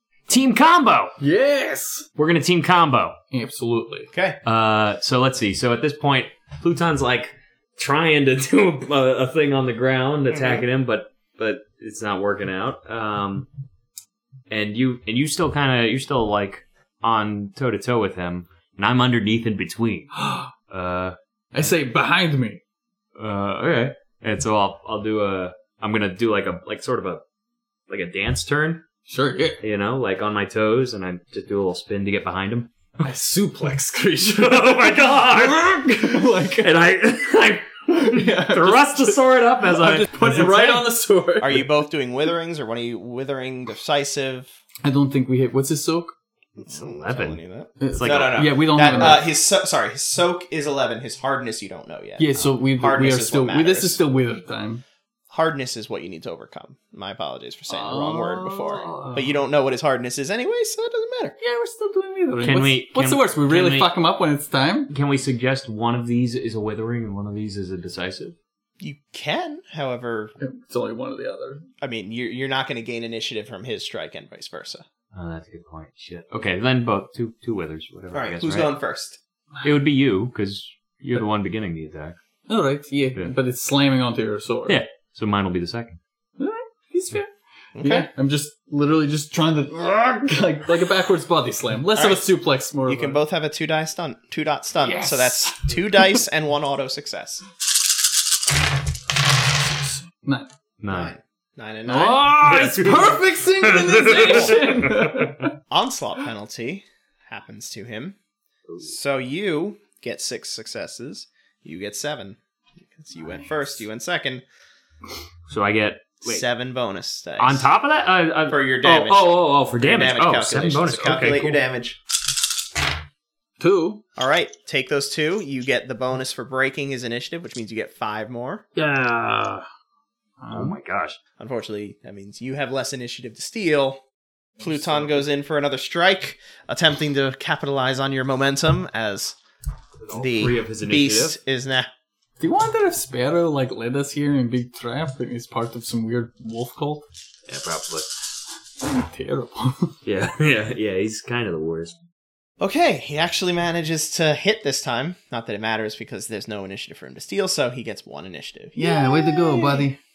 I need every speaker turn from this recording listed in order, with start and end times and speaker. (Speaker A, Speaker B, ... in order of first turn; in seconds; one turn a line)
Speaker A: 0.3-1.1
Speaker B: 1.2-2.1
Speaker A: 2.1-3.2
Speaker B: 3.3-4.1
Speaker C: 4.1-4.4
Speaker A: 4.4-13.5
Speaker C: 10.3-10.6
Speaker A: 14.5-21.7
Speaker B: 20.1-20.5
Speaker B: 21.5-22.6
Speaker A: 23.2-27.2
Speaker A: 27.9-28.8
Speaker B: 29.1-29.6
Speaker A: 29.6-32.7
Speaker B: 33.0-36.7
Speaker A: 34.3-40.8
Speaker B: 37.9-41.7
Speaker C: 41.4-44.5
Speaker B: 44.8-46.1
Speaker C: 46.6-54.0
Speaker A: 46.6-47.4
Speaker B: 47.8-49.3
Speaker A: 47.9-49.2
Speaker B: 52.2-54.8
Speaker C: 55.3-61.4
Speaker B: 57.7-59.2
Speaker A: 58.7-59.2
Speaker B: 61.4-64.9
Speaker A: 62.4-63.9
Speaker A: 64.9-68.3
Speaker C: 68.8-70.3
Speaker B: 70.4-71.7
Speaker C: 71.8-74.8
Speaker A: 75.1-78.7
Speaker C: 78.1-79.2
Speaker A: 79.6-82.2
Speaker B: 82.5-84.8
Speaker A: 84.7-86.0
Speaker B: 86.4-93.2
Speaker C: 87.8-88.1
Speaker C: 91.9-92.2
Speaker C: 92.8-97.4
Speaker B: 94.8-96.2
Speaker B: 99.8-100.5
Speaker A: 100.8-101.1
Speaker C: 100.9-102.3
Speaker B: 101.9-105.5
Speaker A: 102.0-105.5
Speaker C: 104.1-104.6
Speaker C: 105.7-108.2
Speaker C: 108.8-114.4
Speaker A: 115.5-116.4
Speaker C: 116.2-117.7
Speaker A: 117.4-121.6
Speaker C: 118.5-122.0
Speaker B: 123.6-124.0
Speaker C: 124.2-128.6
Speaker A: 128.8-129.7
Speaker B: 130.4-130.8
Speaker A: 130.5-131.2
Speaker C: 131.4-134.0
Speaker B: 134.6-135.2
Speaker C: 134.6-139.4
Speaker A: 140.0-141.4
Speaker C: 140.1-141.9
Speaker B: 142.4-147.0
Speaker A: 147.5-148.1
Speaker B: 148.8-150.0
Speaker A: 150.0-151.9
Speaker C: 152.6-159.9
Speaker B: 158.8-160.0